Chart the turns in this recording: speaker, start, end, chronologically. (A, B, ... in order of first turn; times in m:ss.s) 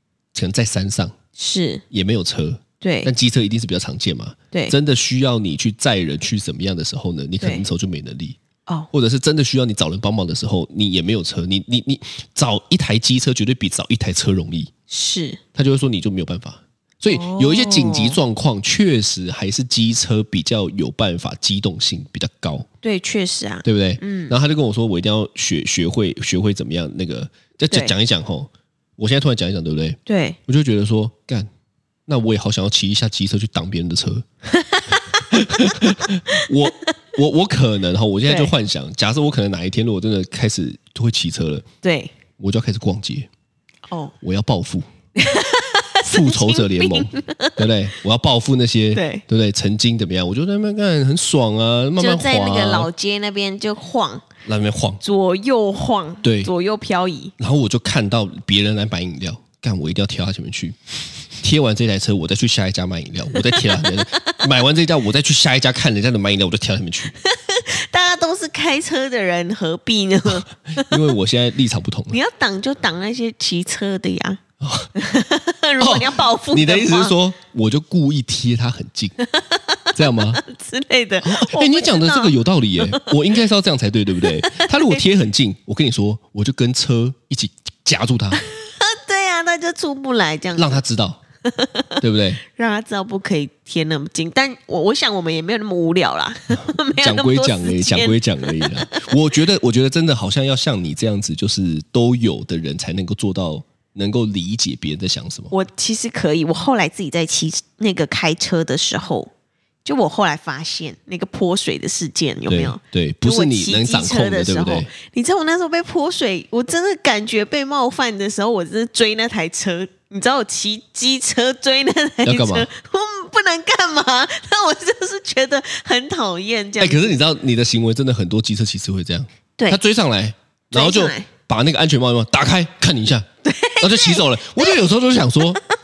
0:00.3-0:01.1 A
0:01.4-0:01.8 B
0:01.9-0:08.4 A
0:02.8-0:03.1 B
0:07.4-0:07.7 B
0:08.9-0:14.7 A
0:14.9-0:15.4 B
0:15.6-0:22.7 A
0:17.1-0:18.2 B
0:22.8-0:24.4 B
0:23.6-0:31.5 A
0:30.1-0:30.4 B
0:32.1-0:34.2 A
0:34.5-0:35.2 B
0:35.3-0:41.7 A
0:38.2-0:38.5 B
0:41.8-0:42.1 B
0:42.4-0:43.3 A
0:43.9-0:44.2 B
0:44.2-0:44.9 A
0:45.2-0:47.7 B
0:46.1-0:52.9 A
0:48.9-0:49.2 B
0:52.0-0:54.2 B
0:54.4-0:55.0 A
0:55.0-0:57.3 B
0:56.2-0:56.5 A
0:57.4-1:00.8 A
1:01.4-1:07.1 A
1:03.4-1:04.4 B
1:07.2-1:11.0 B
1:10.7-1:12.2 A
1:12.1-1:14.4 B
1:14.6-1:14.9 A
1:15.0-1:17.2 B
1:15.8-1:19.2 A
1:19.2-1:23.2 B
1:20.0-1:20.4 A
1:21.2-1:28.4 A
1:24.2-1:25.0 B
1:28.6-1:30.8 B
1:30.6-1:31.2 A
1:31.4-1:39.1 B
1:32.0-1:32.4 A
1:36.5-1:45.5 A
1:45.5-1:49.3 B
1:49.8-2:07.2 B
1:52.5-1:54.9 A
2:02.2-2:02.7 A
2:06.8-2:13.3 A
2:10.7-2:11.3 B
2:13.4-2:14.8 B
2:13.8-2:15.6 A